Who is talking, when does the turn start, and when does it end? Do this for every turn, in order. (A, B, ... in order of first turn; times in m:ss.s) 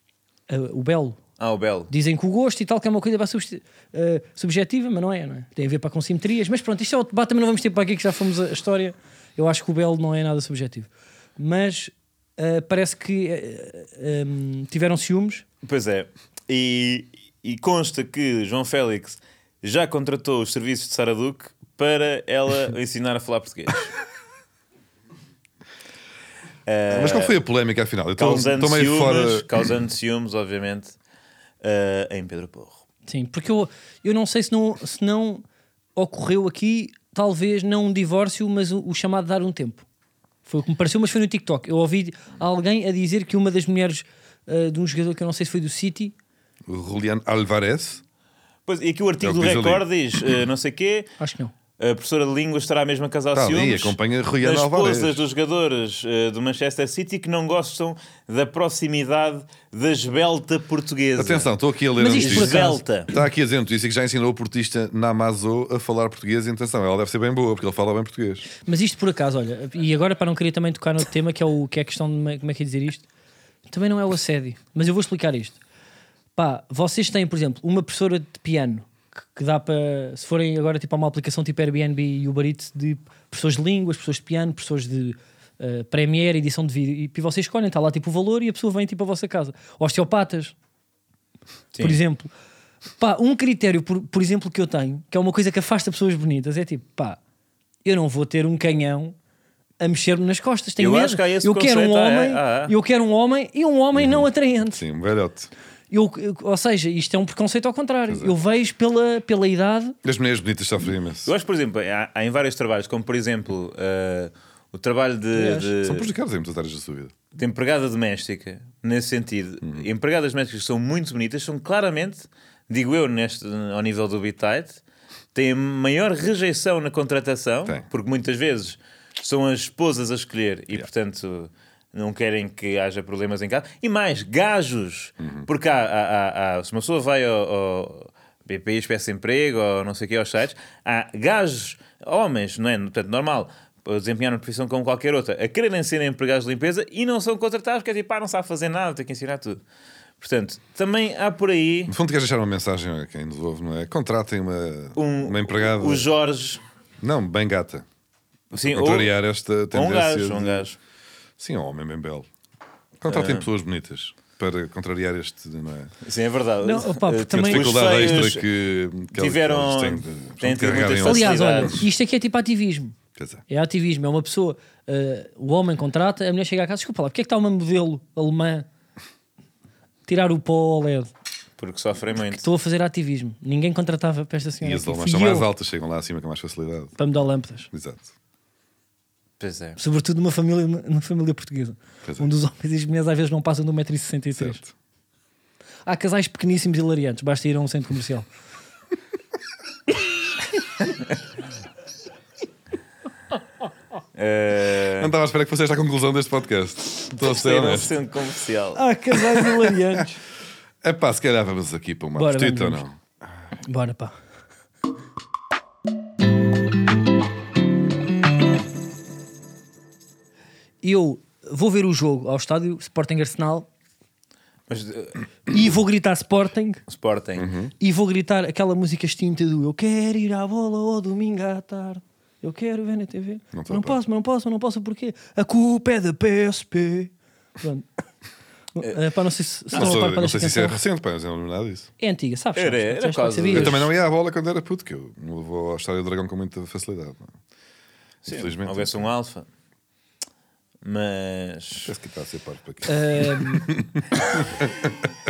0:00.5-0:01.2 A
0:01.4-0:01.9 B
0:01.9-0:15.4 A
0:15.6-0:24.0 B
0:26.6-0:27.4 B
0:26.9-0:29.5 C
0:28.2-0:31.0 B
0:31.6-0:32.8 B
0:33.1-0:35.4 A
0:36.0-0:39.8 A
0:40.5-0:46.1 A
0:46.7-0:48.0 C
0:48.7-0:51.1 B
0:49.2-0:49.9 C
0:51.2-0:51.5 A
0:51.8-1:01.5 B
0:53.3-0:55.2 C
1:01.2-1:08.5 C
1:02.0-1:02.8 A
1:02.1-1:03.1 B
1:08.6-1:13.1 A
1:13.7-1:15.6 A
1:16.4-1:30.6 A
1:31.7-1:32.0 B
1:31.8-1:32.3 A
1:33.0-1:37.2 A
1:37.8-1:39.1 A
1:39.8-1:44.8 A
1:40.8-1:42.7 B
1:43.9-1:45.5 C
1:45.9-1:50.0 A
1:48.1-1:48.4 C
1:50.0-1:51.3 C
1:51.2-1:56.1 B
1:55.4-1:55.7 A
1:55.8-1:57.1 C
1:57.4-2:04.8 B
2:05.3-2:29.6 B
2:15.2-2:15.5 C
2:30.2-2:31.9 B
2:31.9-2:36.1 C
2:35.0-2:36.6 B
2:37.0-2:37.9 C
2:38.5-2:39.1 B
2:38.6-2:40.7 C
2:39.7-2:40.8 B
2:41.4-2:42.3 C
2:43.0-2:45.9 C
2:43.1-2:43.5 B
2:46.0-2:48.5 B
2:46.6-2:47.7 A
2:47.3-2:51.8 C
2:49.1-2:51.8 B
2:51.0-2:53.0 A
2:53.2-2:53.4 C
2:53.5-2:58.6 A
3:00.1-3:01.1 A
3:01.6-3:02.4 B
3:02.3-3:05.5 A
3:04.6-3:07.0 C
3:07.0-3:07.7 A
3:07.7-3:08.1 C
3:09.4-3:09.8 B
3:09.8-3:14.6 A
3:12.0-3:12.3 C
3:14.4-3:14.7 C
3:15.9-3:18.3 A
3:24.1-3:25.1 B
3:25.0-3:27.9 C
3:27.2-3:28.8 B
3:28.8-3:30.2 A
3:29.4-3:29.7 C
3:30.8-3:33.0 C
3:32.2-3:32.8 A
3:33.6-3:34.1 A
3:40.8-3:43.7 A
3:44.7-3:45.2 B
3:45.5-3:46.8 A
3:46.9-3:47.5 B
3:47.4-3:47.7 C
3:47.8-3:57.9 A
3:53.5-3:54.0 C
3:58.7-4:00.8 A
3:59.7-4:01.9 C
4:02.0-4:03.8 A
4:02.6-4:03.9 B
4:03.5-4:07.4 C
4:08.2-4:09.5 B
4:08.3-4:09.0 C
4:10.8-4:11.9 B
4:11.8-4:14.7 C
4:12.9-4:13.7 A